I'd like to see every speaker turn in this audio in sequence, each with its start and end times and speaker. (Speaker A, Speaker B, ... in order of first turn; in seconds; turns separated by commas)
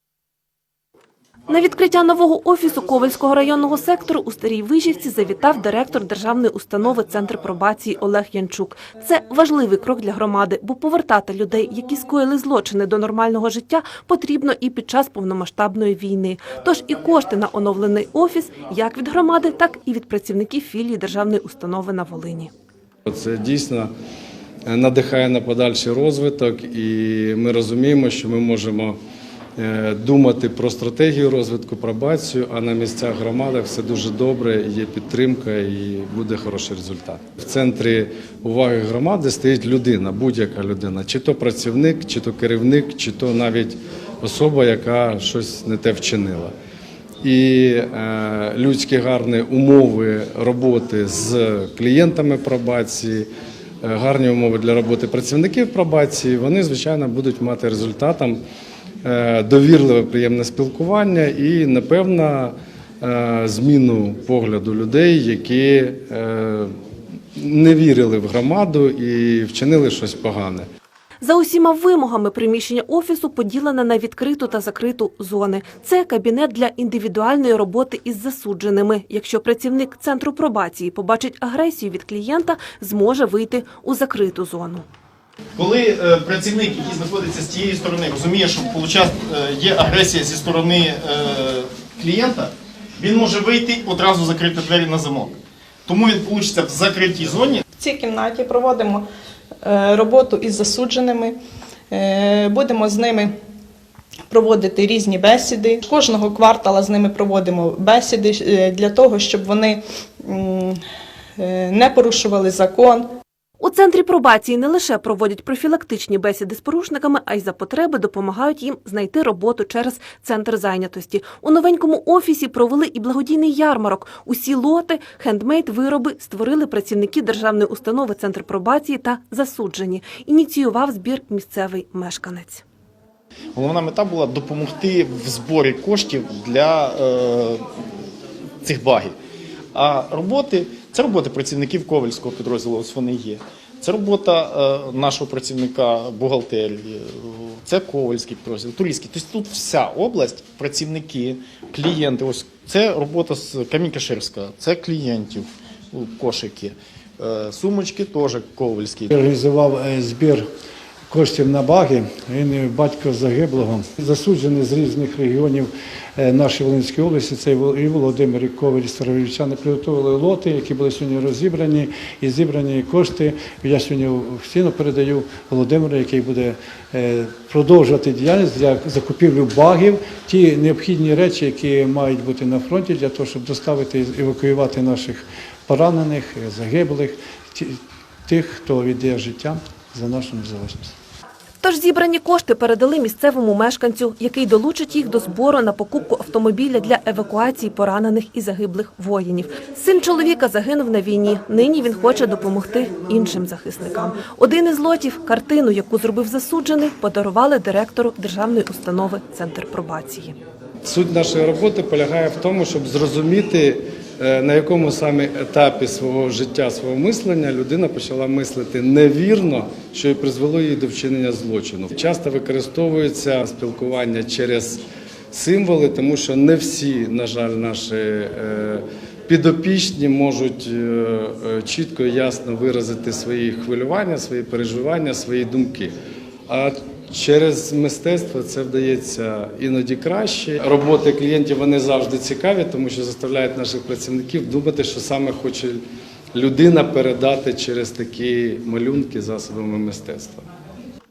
Speaker A: 1.5-22.5, Speaker B: 23.1-23.9, Speaker B: 24.7-29.0, Speaker B: 29.6-46.5, Speaker B: 47.2-53.3, Speaker B: 53.8-58.4, Speaker B: 59.0-66.7, Speaker B: 67.4-70.7, Speaker A: 71.2-84.8, Speaker C: 85.6-97.6, Speaker D: 97.8-99.0, Speaker D: 99.6-101.4, Speaker D: 101.9-103.3, Speaker D: 104.3-110.8, Speaker D: 111.4-113.1, Speaker A: 113.6-132.6, Speaker C: 133.6-137.6, Speaker C: 138.6-139.1, Speaker C: 139.7-159.1, Speaker E: 159.1-160.4, Speaker E: 161.1-190.9, Speaker A: 191.6-210.3, Speaker B: 210.8-235.9, Speaker B: 236.5-245.8, Speaker B: 246.3-250.4